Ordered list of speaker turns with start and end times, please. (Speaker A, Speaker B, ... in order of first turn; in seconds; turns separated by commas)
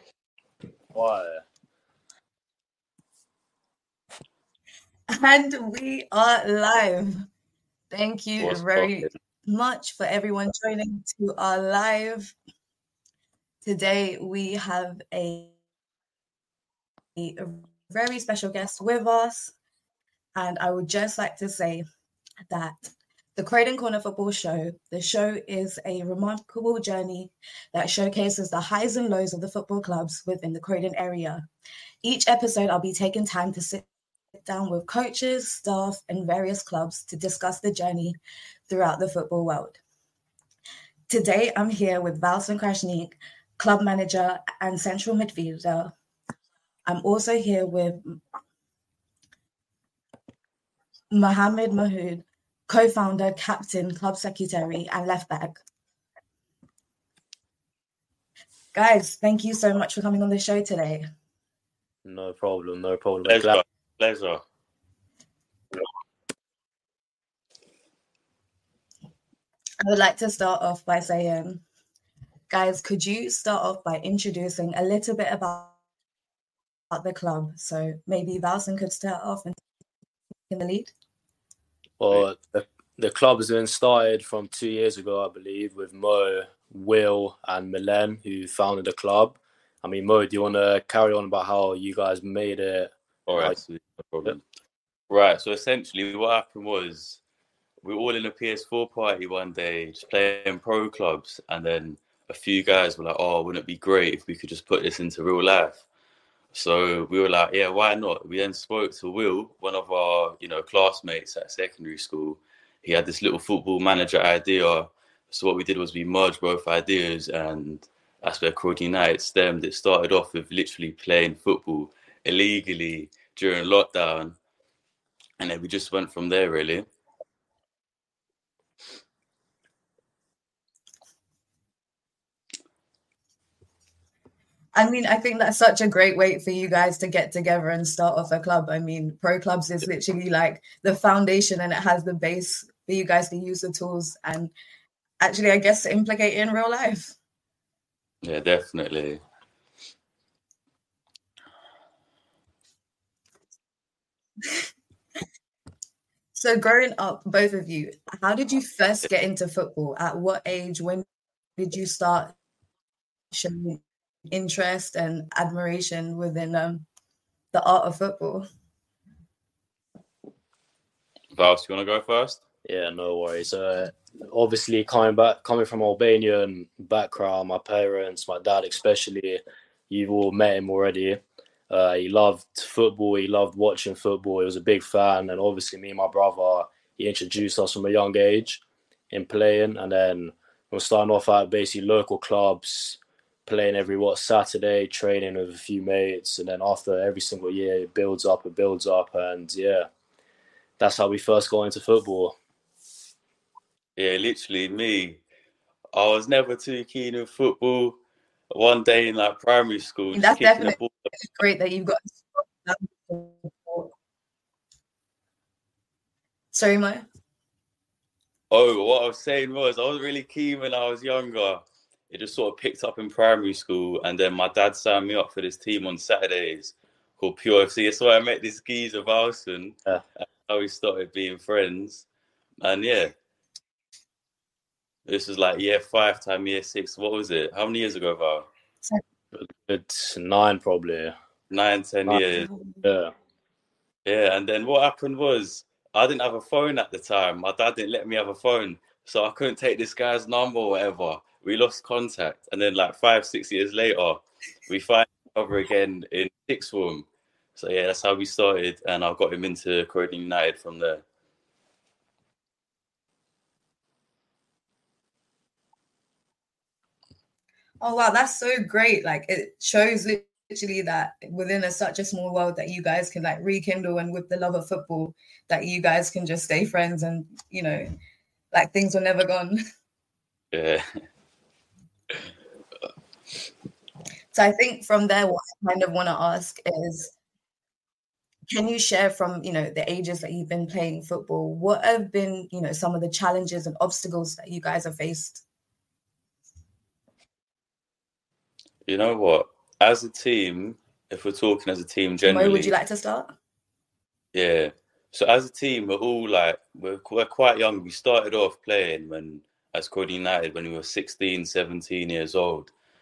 Speaker A: 0.9-1.4, Speaker B: 5.1-7.3, Speaker B: 7.9-12.3, Speaker C: 8.4-9.1, Speaker B: 13.6-15.5, Speaker B: 17.1-19.5, Speaker B: 20.4-21.8, Speaker B: 22.5-31.5, Speaker B: 32.0-33.8, Speaker B: 34.4-39.8, Speaker B: 41.1-45.9, Speaker B: 46.9-48.2, Speaker B: 51.1-55.6, Speaker B: 58.7-61.0, Speaker A: 62.0-63.6, Speaker C: 63.2-64.4, Speaker B: 69.8-71.6, Speaker B: 72.5-75.7, Speaker B: 76.9-79.6, Speaker B: 80.5-80.9, Speaker A: 82.0-93.6, Speaker C: 93.3-94.4, Speaker C: 95.1-97.2, Speaker C: 97.8-105.8, Speaker C: 106.5-124.4, Speaker C: 125.4-126.8, Speaker B: 134.7-144.5, Speaker B: 145.2-147.2, Speaker C: 148.2-149.2, Speaker B: 154.4-154.7, Speaker B: 156.3-161.0, Speaker B: 161.6-162.3, Speaker B: 163.3-166.8, Speaker B: 167.5-168.4, Speaker C: 171.3-172.4, Speaker A: 172.7-199.9, Speaker A: 200.8-202.3, Speaker C: 204.0-205.2, Speaker C: 205.9-208.0, Speaker C: 208.5-211.1, Speaker B: 210.1-213.9, Speaker B: 216.5-217.1, Speaker C: 218.5-232.1, Speaker C: 232.6-233.1, Speaker C: 235.1-238.5, Speaker A: 239.3-241.1, Speaker C: 241.5-242.5, Speaker B: 242.3-242.8, Speaker A: 242.8-243.1, Speaker C: 244.1-261.0, Speaker B: 267.8-277.9, Speaker B: 278.5-279.6, Speaker C: 280.5-280.8, Speaker B: 284.3-287.1, Speaker B: 288.5-295.4, Speaker C: 298.9-302.7, Speaker B: 302.2-303.4, Speaker C: 304.3-312.7